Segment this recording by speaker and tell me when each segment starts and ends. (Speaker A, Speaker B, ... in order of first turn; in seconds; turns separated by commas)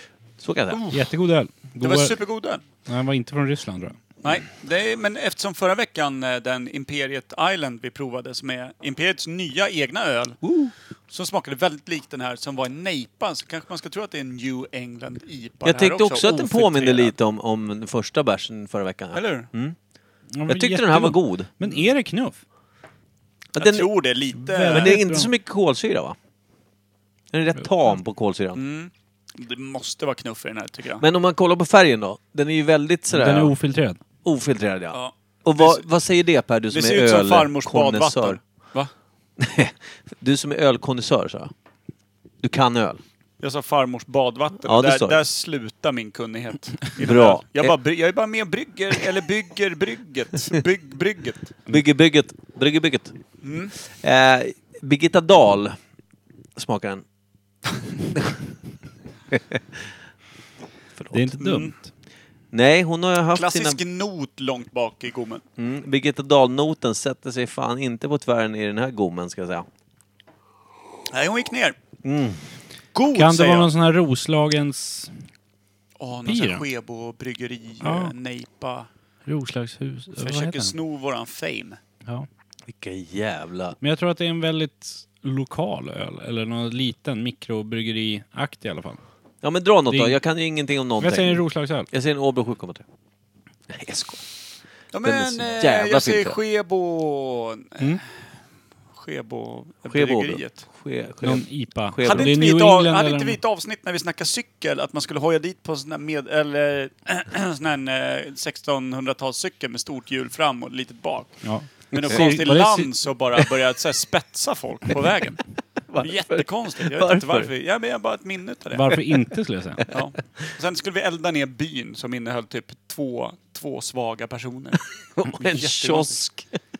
Speaker A: 0.4-0.8, Speaker B: 0.9-2.2, Speaker C: 1.8-2.6, Speaker B: 2.9-4.0, Speaker C: 4.2-10.4, Speaker A: 10.4-10.7, Speaker C: 11.1-17.1, Speaker A: 15.6-19.8, Speaker C: 19.1-19.5, Speaker B: 20.4-22.4, Speaker A: 20.5-21.5, Speaker A: 23.5-23.9, Speaker C: 23.6-25.0, Speaker B: 24.4-25.3, Speaker A: 24.7-26.1, Speaker A: 27.3-28.6, Speaker C: 28.6-31.0, Speaker A: 31.0-33.5, Speaker B: 33.1-34.0, Speaker A: 34.2-38.4, Speaker C: 34.9-35.9, Speaker C: 36.7-38.9, Speaker A: 39.4-41.5, Speaker A: 42.4-43.0, Speaker C: 43.4-51.5, Speaker A: 44.6-45.2, Speaker A: 47.0-47.8, Speaker A: 51.7-53.1, Speaker C: 53.4-53.7, Speaker A: 53.8-55.8, Speaker A: 56.6-57.0, Speaker A: 58.1-58.5, Speaker A: 59.3-59.9, Speaker A: 61.0-61.4, Speaker B: 61.1-61.9, Speaker C: 61.4-61.7, Speaker A: 62.5-63.8, Speaker C: 63.3-65.4, Speaker A: 65.6-69.7, Speaker C: 71.1-71.8, Speaker A: 72.0-72.4, Speaker C: 72.9-73.7, Speaker B: 73.1-75.1, Speaker C: 76.0-78.9, Speaker B: 76.3-76.6, Speaker B: 77.8-78.1, Speaker B: 79.3-80.7, Speaker C: 80.1-81.8, Speaker A: 82.7-83.8, Speaker B: 83.8-89.0, Speaker A: 89.4-92.8, Speaker B: 89.9-90.2, Speaker B: 91.0-91.9, Speaker A: 93.7-94.2, Speaker C: 94.9-98.0, Speaker A: 95.0-96.4, Speaker C: 98.9-100.7, Speaker A: 99.9-102.4, Speaker B: 101.2-103.4, Speaker C: 102.0-115.4, Speaker B: 111.4-112.9, Speaker A: 115.9-117.5, Speaker C: 116.0-118.8, Speaker B: 118.8-119.9, Speaker C: 119.9-124.8, Speaker A: 125.1-126.5, Speaker C: 125.3-126.2